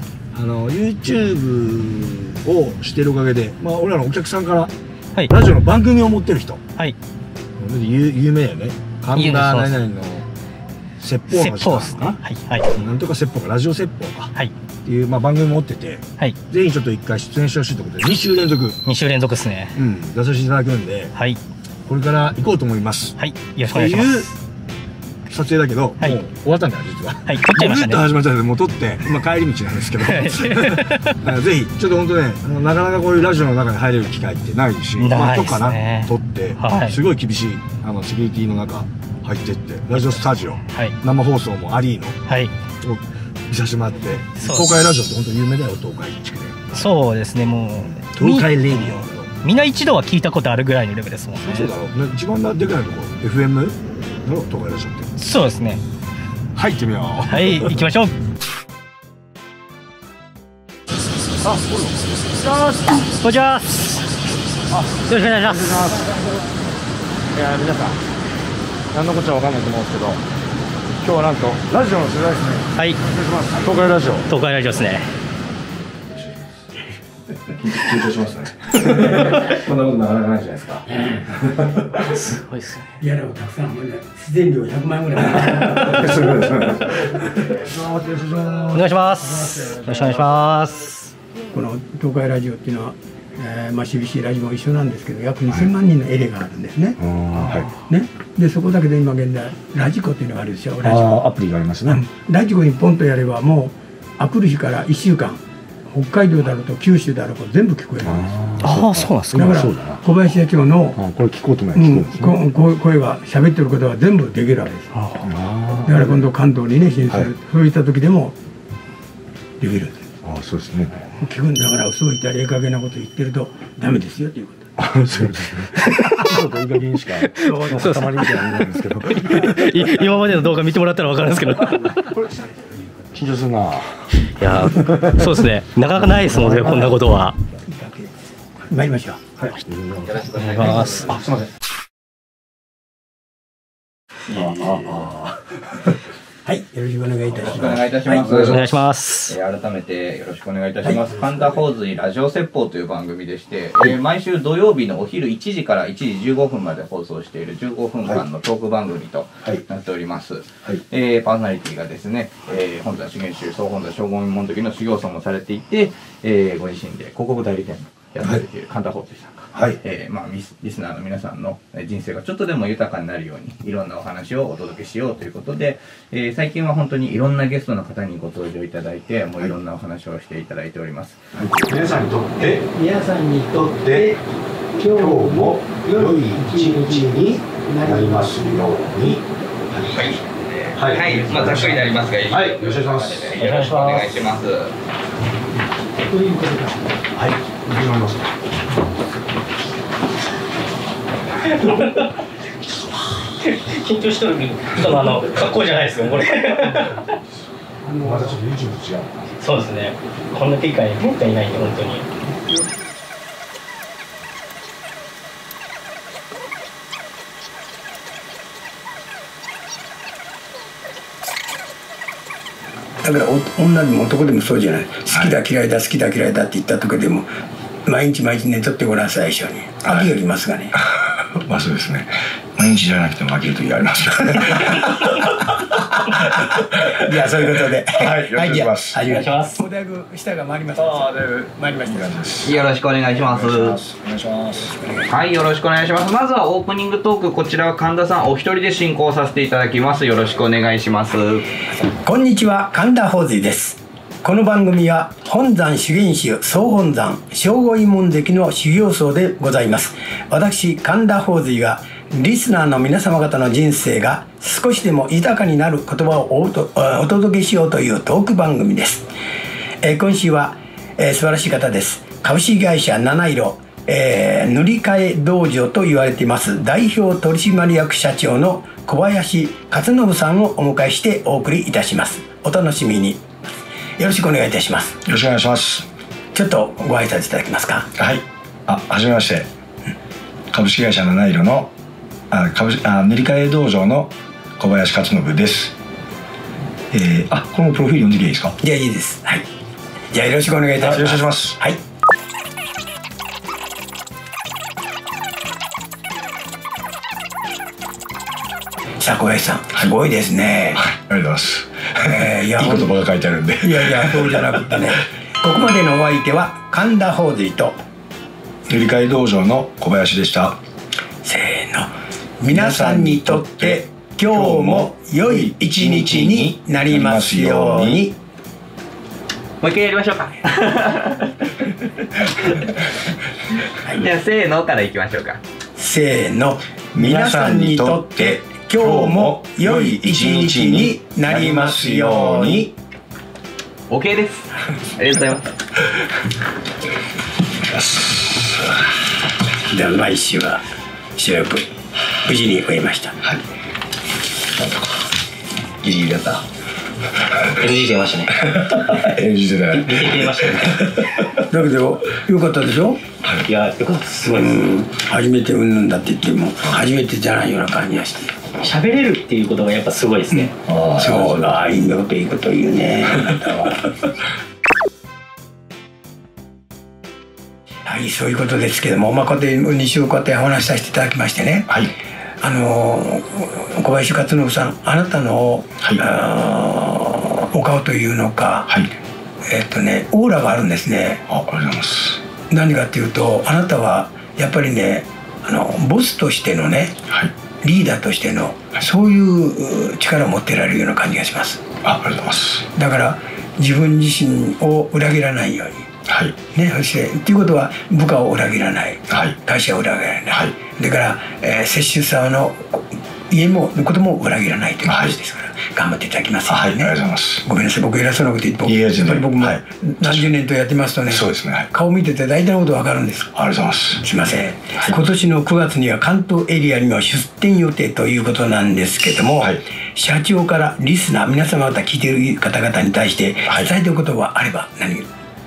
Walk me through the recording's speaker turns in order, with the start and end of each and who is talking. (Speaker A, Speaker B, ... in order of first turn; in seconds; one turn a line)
Speaker A: 0.3-4.7
Speaker A: 5.3-6.6
Speaker A: 7.6-10.2
Speaker B: 9.1-9.8
Speaker A: 11.0-12.1
Speaker B: 11.3-12.7
Speaker A: 12.7-14.3
Speaker A: 14.8-18.8
Speaker B: 18.8-19.8
Speaker A: 19.8-21.1
Speaker B: 21.1-21.4
Speaker A: 21.9-23.1
Speaker B: 23.2-24.3
Speaker A: 23.7-24.2
Speaker A: 25.3-42.1
Speaker B: 27.2-28.0
Speaker B: 30.0-31.1
Speaker B: 35.0-37.0
Speaker B: 39.9-41.0
Speaker B: 42.3-42.5
Speaker A: 42.8-46.6
Speaker B: 44.4-44.7
Speaker B: 46.7-51.7
Speaker A: 47.9-49.3
Speaker A: 51.4-55.1
Speaker B: 55.2-55.8
Speaker A: 56.5-57.6
Speaker B: 57.3-58.1
Speaker A: 61.4-62.9
Speaker B: 63.0-63.8
Speaker B: 65.0-65.9
Speaker A: 65.5-66.0
Speaker A: 67.3-68.0
Speaker A: 68.9-70.2
Speaker A: 71.0-74.2
Speaker B: 74.3-75.1
Speaker A: 77.6-82.0
Speaker B: 79.2-79.5
Speaker B: 82.0-82.8
Speaker C: 83.0-86.2
Speaker A: 85.8-88.8
Speaker B: 88.7-91.1
Speaker A: 89.6-90.3
Speaker C: 91.5-97.0
Speaker A: 97.0-97.7
Speaker C: 97.7-101.2
Speaker A: 100.8-102.0
Speaker C: 101.9-108.4
Speaker A: 108.0-110.0
Speaker B: 108.6-109.5
Speaker C: 109.3-111.0
Speaker A: 111.0-112.4
Speaker C: 111.7-115.2
Speaker A: 115.2-116.2
Speaker C: 115.8-118.3
Speaker C: 119.6-120.1
Speaker A: 120.2-121.1
Speaker C: 121.2-124.7
Speaker A: 124.8-129.5
Speaker B: 125.9-126.2
Speaker B: 127.2-128.7
Speaker C: 127.4-128.2
Speaker B: 129.2-132.1
Speaker A: 132.1-134.0
Speaker B: 134.4-137.3
Speaker A: 134.7-135.1
Speaker A: 136.3-136.9
Speaker C: 137.7-138.1
Speaker C: 138.7-139.2
Speaker A: 139.4-141.5
Speaker B: 140.3-141.2
Speaker A: 144.3-145.5
Speaker C: 144.4-144.9
Speaker C: 146.4-147.8
Speaker D: 147.3-181.2
Speaker A: 148.1-148.6
Speaker B: 148.3-149.3
Speaker A: 169.5-169.8
Speaker A: 181.3-182.8
Speaker C: 182.6-184.2
Speaker A: 183.5-184.1
Speaker A: 184.8-190.1
Speaker C: 184.8-188.9
Speaker D: 189.9-190.2
Speaker A: 190.7-191.8
Speaker D: 190.7-194.7
Speaker A: 192.3-193.3
Speaker B: 193.3-194.1
Speaker C: 196.1-196.8
Speaker A: 197.1-198.2
Speaker B: 201.4-202.1
Speaker B: 203.4-207.1
Speaker C: 207.8-208.4
Speaker A: 208.0-209.2
Speaker B: 209.4-212.1
Speaker C: 223.0-227.3
Speaker C: 227.8-230.8
Speaker A: 229.8-230.1
Speaker A: 231.2-235.2
Speaker A: 236.4-237.1
Speaker C: 236.8-242.2
Speaker A: 237.9-239.0
Speaker B: 239.1-239.6
Speaker A: 240.8-242.6
Speaker D: 242.4-243.8
Speaker A: 243.2-245.0
Speaker D: 245.1-251.6
Speaker C: 252.0-269.1
Speaker C: 269.8-283.2
Speaker C: 284.0-285.0
Speaker A: 285.0-285.9
Speaker C: 286.3-287.9
Speaker A: 287.9-289.5
Speaker A: 290.5-291.7
Speaker A: 292.3-295.7
Speaker A: 296.9-298.6
Speaker C: 298.6-299.4
Speaker C: 300.1-301.8
Speaker A: 300.8-301.6
Speaker C: 309.0-310.8
Speaker A: 310.7-314.8
Speaker C: 312.1-312.9
Speaker C: 313.6-317.8
Speaker A: 318.7-320.6
Speaker C: 321.2-328.1
Speaker A: 322.5-328.1
Speaker D: 329.6-331.4
Speaker D: 332.2-332.7
Speaker D: 333.8-335.4
Speaker C: 335.8-342.7
Speaker A: 336.9-342.7
Speaker D: 343.9-345.5
Speaker A: 347.7-348.8
Speaker C: 349.7-350.6
Speaker C: 351.1-351.7
Speaker C: 352.2-353.2
Speaker A: 355.8-356.4
Speaker B: 357.4-359.1
Speaker A: 358.6-361.3
Speaker B: 359.7-361.0
Speaker C: 361.5-363.0
Speaker B: 363.4-364.6
Speaker C: 364.3-368.4
Speaker B: 368.6-370.6
Speaker C: 370.3-373.9
Speaker A: 370.7-371.6
Speaker C: 377.9-381.7
Speaker C: 382.4-388.7
Speaker A: 388.7-388.9
Speaker C: 389.4-391.2
Speaker A: 391.3-392.2
Speaker C: 392.5-397.0
Speaker C: 397.6-401.6
Speaker A: 401.8-402.7
Speaker C: 402.7-405.9
Speaker A: 406.1-406.4
Speaker C: 406.5-423.3
Speaker A: 409.1-409.4
Speaker A: 414.8-415.1
Speaker A: 416.5-417.4
Speaker A: 418.6-420.3
Speaker A: 421.1-421.7
Speaker A: 423.3-424.0
Speaker C: 424.0-435.1